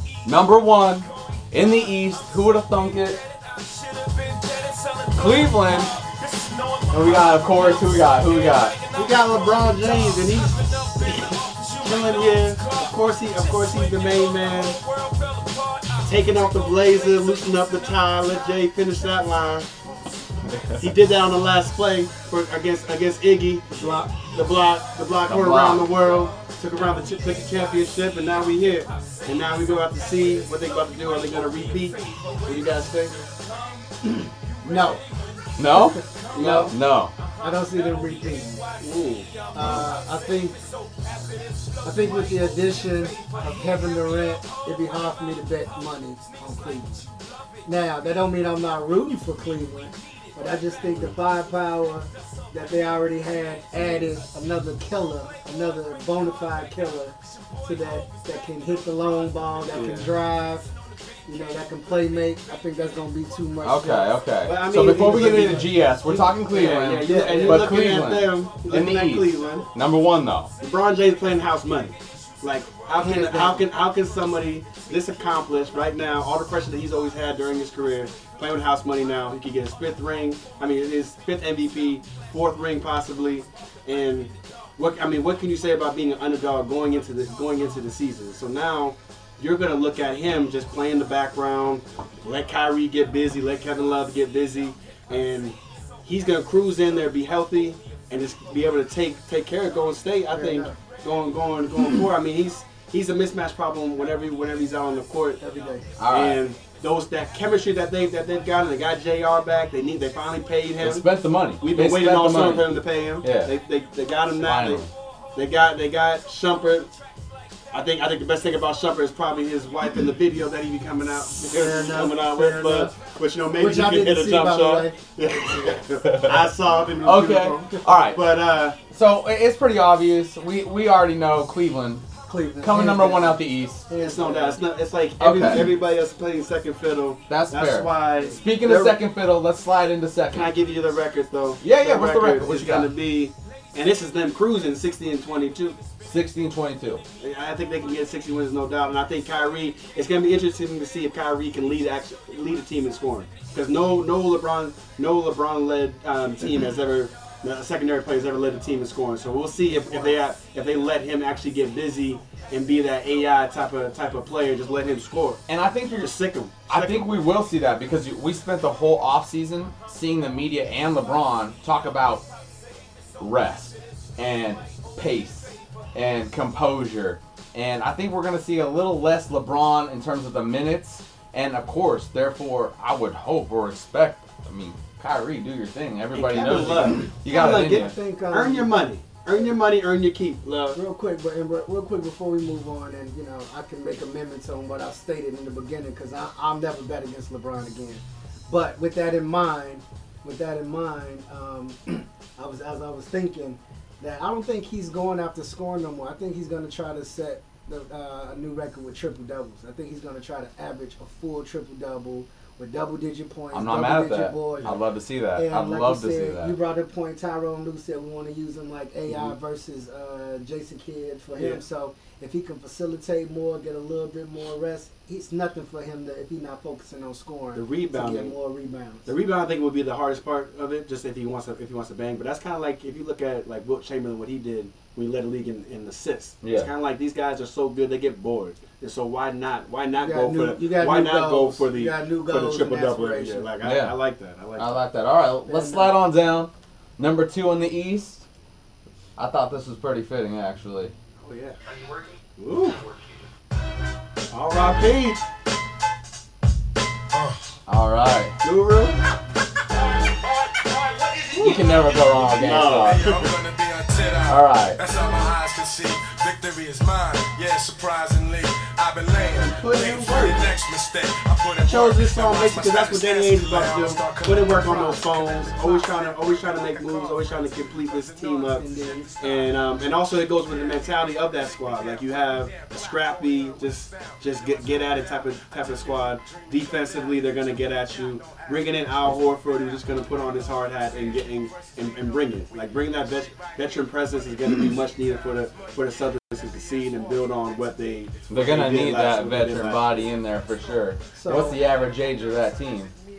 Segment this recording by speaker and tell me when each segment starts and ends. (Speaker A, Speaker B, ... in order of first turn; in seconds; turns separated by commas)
Speaker A: 0.2-3.2, Speaker B: 1.8-2.5, Speaker B: 3.2-18.6, Speaker A: 5.1-5.9, Speaker A: 6.9-8.8, Speaker C: 8.9-14.8, Speaker C: 16.1-19.7, Speaker A: 20.4-20.9, Speaker C: 20.8-33.2, Speaker D: 23.7-24.1, Speaker A: 25.2-26.2, Speaker B: 31.9-32.5, Speaker B: 33.2-33.8, Speaker D: 34.6-35.0, Speaker A: 35.6-37.1, Speaker D: 35.7-36.8, Speaker C: 36.3-36.8, Speaker D: 37.4-38.6, Speaker C: 38.8-39.8, Speaker D: 39.5-40.6, Speaker A: 39.6-39.9, Speaker B: 41.0-42.4, Speaker D: 41.8-47.0, Speaker B: 43.2-43.8, Speaker D: 47.7-60.7, Speaker C: 59.7-60.1, Speaker D: 61.3-64.1, Speaker A: 63.6-70.5, Speaker C: 64.4-69.7, Speaker D: 64.9-65.5, Speaker D: 67.0-67.9, Speaker C: 70.6-105.4, Speaker D: 73.0-73.7, Speaker D: 100.3-100.8, Speaker D: 105.4-105.8, Speaker A: 106.0-106.4, Speaker C: 106.1-111.1, Speaker A: 110.8-113.5, Speaker C: 111.6-114.8, Speaker A: 114.4-114.9, Speaker C: 115.3-116.9, Speaker C: 117.7-128.8, Speaker D: 121.5-122.9, Speaker D: 123.6-125.8, Speaker A: 126.0-126.4, Speaker A: 127.0-128.3, Speaker D: 127.7-128.1, Speaker A: 128.9-132.1, Speaker D: 132.3-134.6, Speaker A: 132.6-133.9, Speaker C: 134.0-139.0, Speaker A: 135.2-135.7, Speaker A: 137.3-140.5, Speaker C: 140.3-145.8, Speaker A: 141.6-142.9, Speaker A: 146.0-147.0, Speaker C: 147.2-165.4, Speaker D: 159.8-160.1, Speaker A: 165.5-166.2, Speaker C: 166.0-167.1, Speaker A: 166.7-172.3, Speaker A: 173.2-187.9, Speaker C: 186.1-190.8, Speaker D: 187.3-188.7, Speaker D: 190.7-214.8, Speaker A: 213.5-216.6, Speaker D: 215.3-229.1, Speaker C: 221.4-221.6, Speaker C: 227.6-228.3, Speaker C: 229.1-244.7, Speaker A: 236.4-236.7, Speaker D: 240.0-243.5, Speaker A: 243.6-243.9, Speaker A: 244.6-248.3, Speaker D: 245.5-246.0, Speaker A: 249.2-250.9, Speaker C: 251.2-251.6, Speaker C: 252.4-252.8, Speaker C: 254.3-255.2, Speaker B: 257.1-257.4, Speaker A: 257.7-258.4, Speaker C: 258.4-259.0, Speaker B: 260.1-277.3, Speaker C: 261.4-261.6, Speaker A: 261.4-263.2, Speaker C: 262.4-263.4, Speaker A: 264.3-264.8, Speaker C: 269.4-270.5, Speaker C: 271.6-278.6, Speaker D: 278.5-279.1, Speaker C: 279.2-300.0, Speaker A: 298.3-302.9, Speaker D: 301.1-301.6